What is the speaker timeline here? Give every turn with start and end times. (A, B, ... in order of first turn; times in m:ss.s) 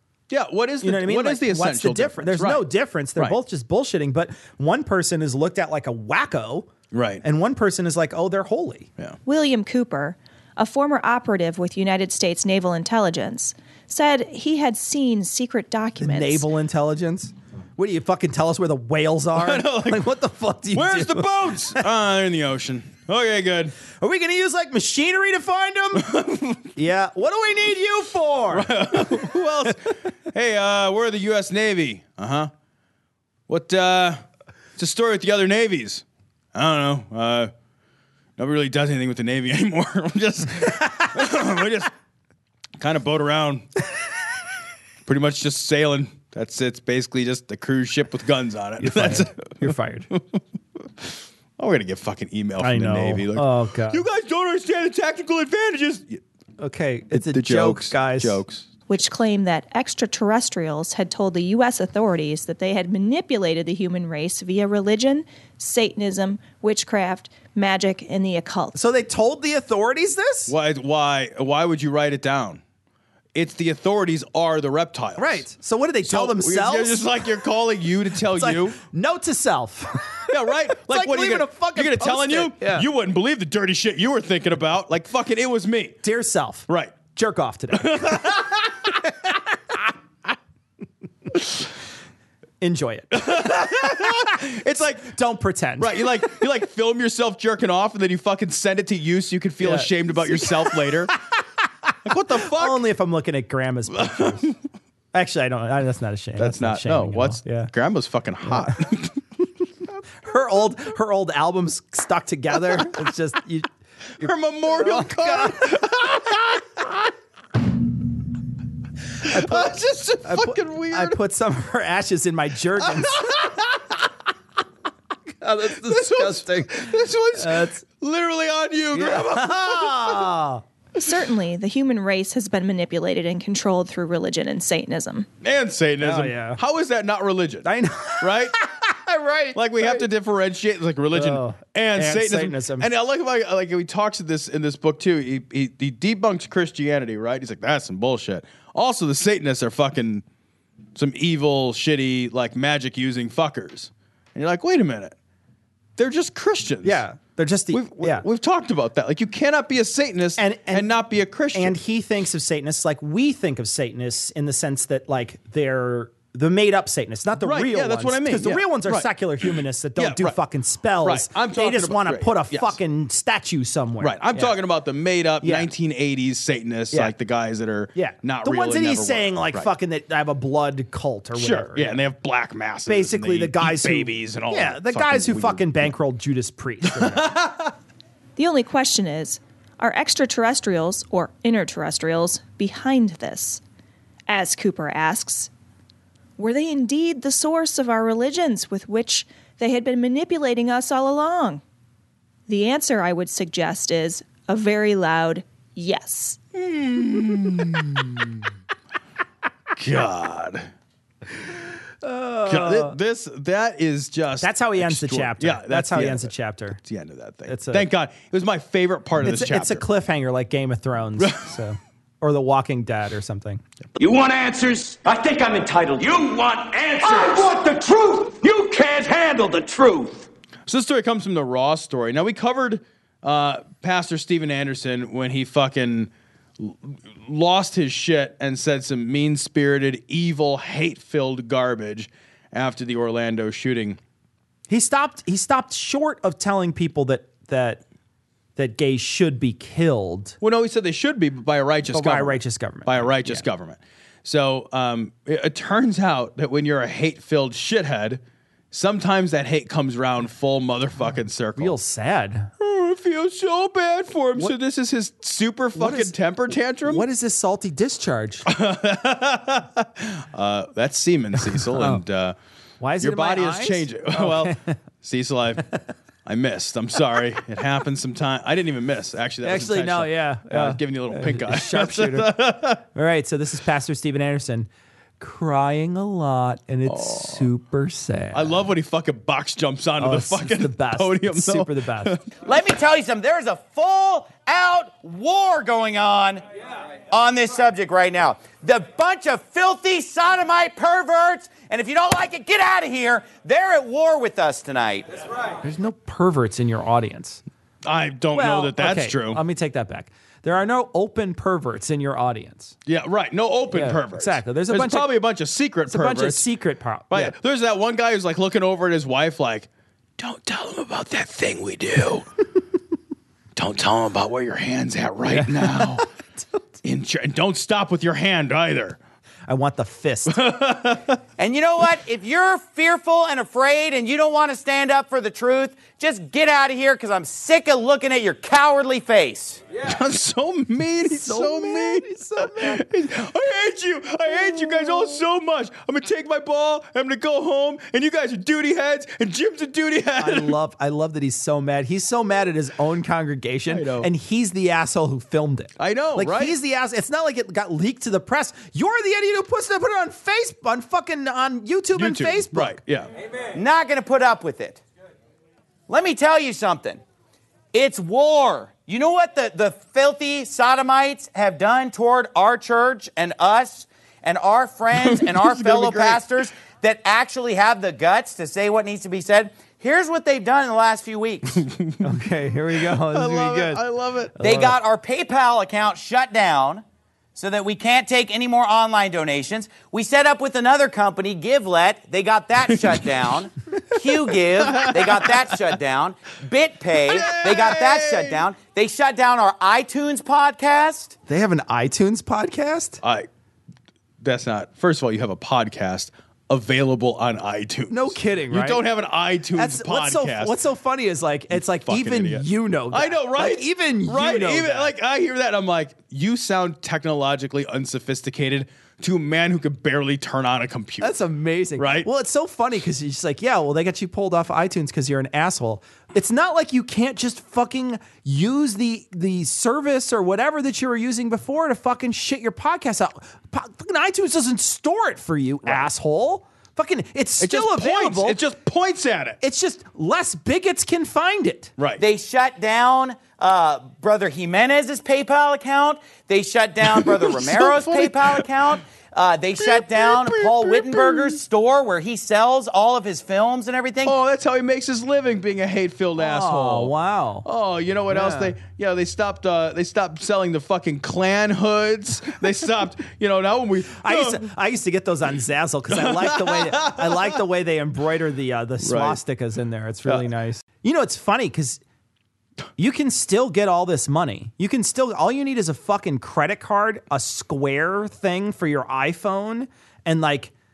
0:00.3-0:02.6 A
0:00.8-0:06.7 B
0:06.9-0:07.2 A
0:07.2-0:08.9 B
0:09.3-0:16.4 C
0:16.0-0:21.8 B
0:19.4-0:20.1 A
0:20.7-0:23.7 A
0:24.0-0:26.0 B
0:26.0-0:26.7 A
0:26.8-0:29.2 B
0:28.5-0:32.5 A
0:33.5-0:34.2 A
0:34.8-0:37.5 A
0:38.4-0:41.9 A
0:42.8-0:43.6 A
0:45.0-0:49.6 A
0:48.8-0:50.1 B
0:51.6-0:56.2 A
0:52.6-0:54.0 B
0:56.6-0:58.4 B
0:57.1-0:58.6 A
0:58.9-1:08.8 C
1:08.7-1:10.5 B
1:10.5-1:12.6 A
1:13.3-1:15.4 A
1:15.2-1:17.1 B
1:16.0-1:18.8 A
1:18.3-1:22.8 B
1:20.3-1:26.0 A
1:26.0-1:28.4 B
1:26.7-1:27.0 A
1:27.8-1:28.9 A
1:32.6-1:34.2 B
1:33.1-1:35.1 A
1:35.1-1:36.1 B
1:35.8-1:41.1 A
1:39.6-1:40.8 B
1:42.0-1:42.8 A
1:42.5-1:44.5 B
1:43.9-1:44.6 A
1:45.1-1:47.7 B
1:46.4-1:49.2 A
1:50.2-1:53.7 B
1:54.2-1:56.6 A
1:54.2-1:55.8 B
1:59.2-2:01.2 A
1:59.3-2:03.5 B
2:02.9-2:03.6 A
2:05.4-2:07.8 B
2:05.7-2:10.3 A
2:08.9-2:10.6 B
2:11.0-2:15.3 C
2:15.4-2:17.7 A
2:16.0-2:16.6 B
2:17.6-2:20.0 B
2:18.2-2:18.6 A
2:19.6-2:30.2 A
2:21.1-2:22.9 B
2:31.0-2:35.1 A
2:36.0-2:37.0 A
2:36.8-2:38.2 B
2:37.7-2:41.7 A
2:40.4-2:40.9 B
2:41.5-2:54.6 B
2:47.4-2:50.4 A
2:51.0-2:52.8 A
2:54.0-2:59.7 A
2:55.4-2:55.7 B
2:57.9-3:02.0 B
3:01.3-3:05.9 A
3:02.9-3:07.4 B
3:07.0-3:07.7 A
3:08.4-3:13.6 C
3:14.3-3:15.5 C
3:16.4-3:21.6 C
3:22.5-3:26.4 C
3:26.6-3:28.4 A
3:29.8-3:30.7 A
3:32.0-3:32.9 B
3:32.5-3:39.8 A
3:34.4-3:36.8 B
3:37.5-3:37.9 B
3:39.2-3:43.6 B
3:41.2-3:41.5 A
3:44.0-3:50.3 D
3:50.7-4:04.0 A
4:04.7-4:07.8 B
4:08.6-4:10.4 B
4:10.4-4:18.2 A
4:11.9-4:13.4 B
4:18.7-4:21.8 A
4:21.6-4:22.5 B
4:22.6-4:27.0 A
4:25.8-4:26.1 B
4:26.9-4:28.4 B
4:28.4-4:32.3 A
4:31.4-4:32.0 B
4:32.8-4:34.7 B
4:33.0-4:35.7 A
4:36.3-4:42.8 A
4:39.4-4:42.4 B
4:42.9-4:44.7 B
4:45.2-4:48.6 B
4:46.9-4:47.5 A
4:48.3-4:52.3 A
4:50.0-4:52.1 B
4:52.4-4:56.4 E
4:57.1-5:05.0 E
5:05.6-5:07.4 B
5:07.8-5:09.4 A
5:08.3-5:12.7 B
5:12.9-5:16.5 A
5:13.7-5:15.1 B
5:15.9-5:17.3 B
5:17.1-5:22.3 A
5:23.6-5:26.0 A
5:25.3-5:26.0 B
5:26.8-5:29.0 A
5:29.5-5:30.4 B
5:30.3-5:31.2 A
5:31.4-5:39.6 E
5:39.8-5:50.6 A
5:41.0-5:42.8 B
5:50.2-6:02.8 B
5:53.7-5:54.1 A
5:55.8-5:56.6 A
6:02.0-6:03.1 A
6:03.5-6:04.8 E
6:05.9-6:07.0 E
6:07.7-6:21.6 E
6:14.9-6:16.2 A
6:21.6-6:22.0 A
6:22.0-6:23.8 B
6:22.8-6:24.4 A
6:24.4-6:24.7 B
6:24.4-6:26.8 E
6:27.4-6:41.1 E
6:34.6-6:35.4 A
6:37.1-6:38.4 A
6:41.3-6:43.0 B
6:43.0-6:43.3 A
6:44.2-6:50.6 A
6:47.9-6:48.8 B
6:49.6-6:54.9 B
6:51.5-7:01.2 A
7:01.0-7:18.4 B
7:01.8-7:02.1 A
7:17.4-7:19.4 A
7:19.4-7:21.7 B
7:21.8-7:22.0 A
7:22.0-7:34.1 E
7:26.9-7:28.5 A
7:29.6-7:31.4 A
7:34.0-7:36.9 A
7:36.2-7:37.4 B
7:37.4-7:44.4 A
7:38.1-7:38.6 B
7:44.0-7:51.8 B
7:45.9-7:47.4 A
7:48.8-7:49.2 A
7:52.8-8:00.5 B